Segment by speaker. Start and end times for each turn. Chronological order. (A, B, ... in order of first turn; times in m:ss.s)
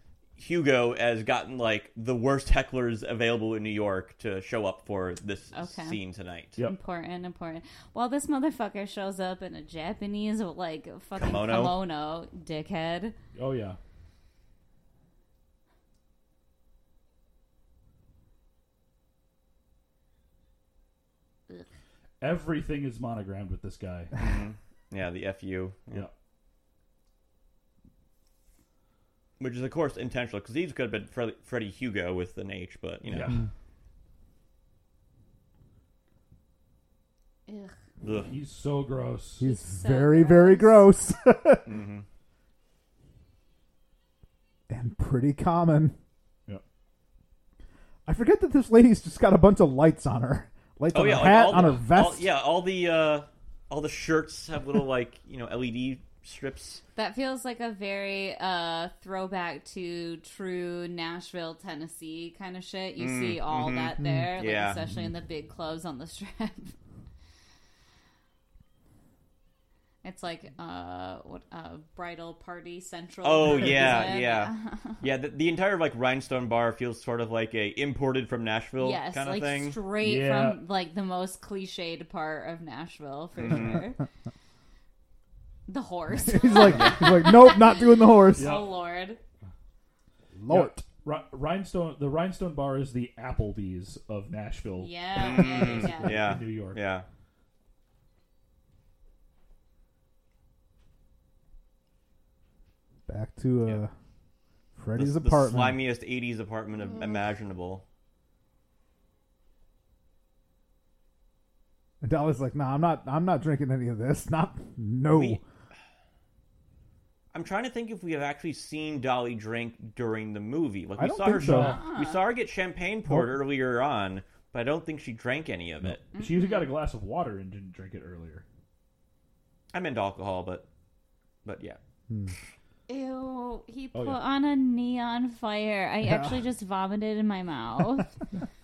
0:00.4-0:06.6 A
0:05.5-0:06.0 B
0:06.6-0:13.1 B
0:11.1-0:11.8 A
0:13.3-0:13.8 C
0:22.2-0:24.1 C
0:24.2-0:26.1 A
0:29.4-0:33.4 A
0:33.1-0:33.4 C
0:37.5-0:37.7 B
0:38.0-0:38.3 A
0:38.2-0:39.4 C
0:39.4-0:41.7 D
0:39.4-0:40.9 B
0:41.6-0:42.0 A
0:44.7-0:46.0 D
0:48.0-0:52.3 D
0:50.9-0:56.8 A
0:57.0-1:06.7 B
1:03.0-1:04.8 A
1:04.0-1:04.3 D
1:10.0-1:15.0 B
1:13.2-1:19.8 A
1:13.4-1:14.0 C
1:18.8-1:24.0 B
1:20.0-1:20.6 C
1:23.4-1:23.8 A
1:25.7-1:29.2 B
1:26.2-1:28.6 D
1:26.6-1:27.2 A
1:28.4-1:28.8 C
1:30.3-1:30.8 D
1:30.5-1:36.8 C
1:34.8-1:36.3 B
1:35.2-1:37.0 A
1:43.1-1:43.9 D
1:44.8-1:45.8 D
1:45.0-1:47.8 A
1:52.0-1:55.4 D
1:55.1-1:55.4 A
1:57.3-2:06.0 A
2:01.0-2:01.8 D
2:01.3-2:01.8 C
2:01.6-2:02.2 B
2:03.1-2:03.4 D
2:06.1-2:06.7 B
2:06.1-2:08.4 C
2:09.7-2:10.6 A
2:11.4-2:11.8 A
2:12.1-2:12.3 D
2:12.9-2:18.1 B
2:13.9-2:14.2 C
2:16.1-2:16.4 D